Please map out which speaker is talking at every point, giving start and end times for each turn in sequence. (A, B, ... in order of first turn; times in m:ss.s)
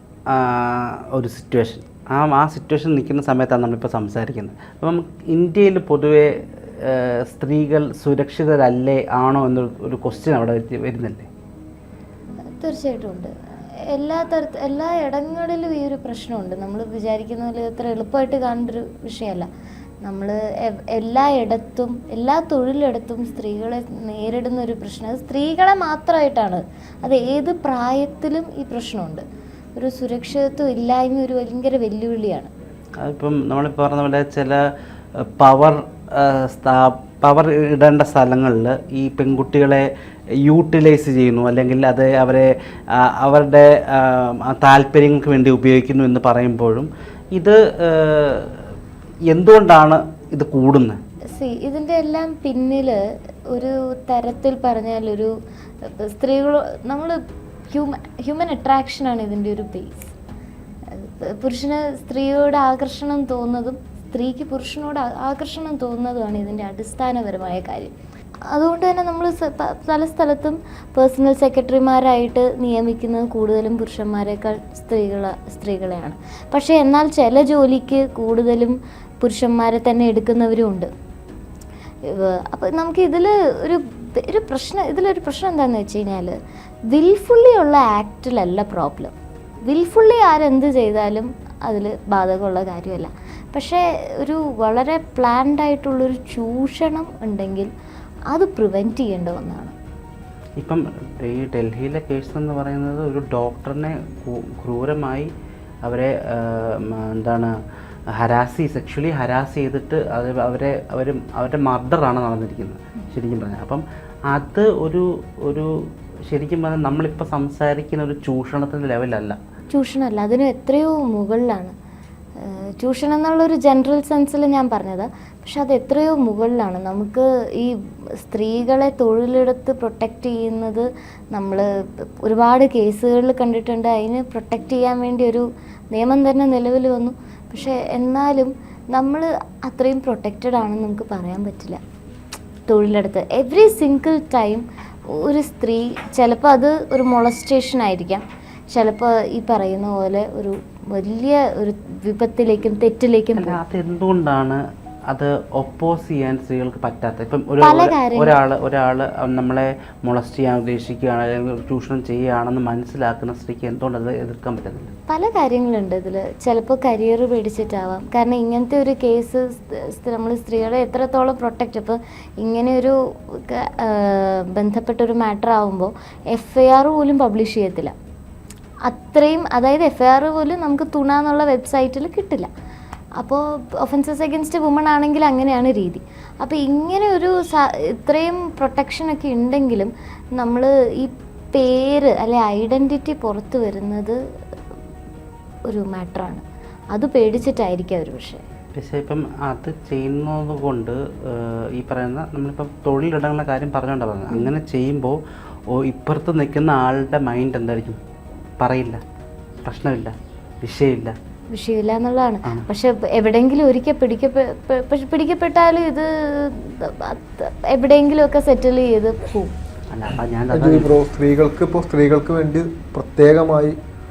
0:00.3-0:11.3 A
0:12.6-0:13.3 B
0:13.9-0:19.5 B
0:20.0-0:29.2 B
0:29.8-0:32.5 B
0:33.0-0:34.6 A
0:35.2-0:39.9 A
0:40.4-0:48.6 A
0:49.3-0:51.0 A
0:51.3-0:53.0 B
0:53.5-0:57.2 B
0:57.7-1:00.1 B
1:00.9-1:07.9 B
1:08.5-1:20.9 B
1:22.0-1:26.4 B
1:26.9-1:29.1 B
1:29.6-1:37.7 B
1:38.3-1:39.7 B
1:40.6-1:45.3 A
1:45.8-1:47.5 A
1:48.2-1:59.4 A
1:59.7-2:01.7 B
2:02.4-2:21.8 B
2:22.7-2:33.6 B
2:33.4-2:44.9 A
2:37.6-2:38.4 B
2:45.1-2:57.9 B
2:58.8-3:02.5 B
3:03.2-3:14.2 B
3:15.7-3:18.4 B
3:18.7-3:25.2 A
3:25.7-3:28.0 A
3:28.6-3:29.0 A
3:29.6-3:31.2 A
3:31.5-3:39.5 B
3:39.9-3:40.9 A
3:40.5-3:43.8 C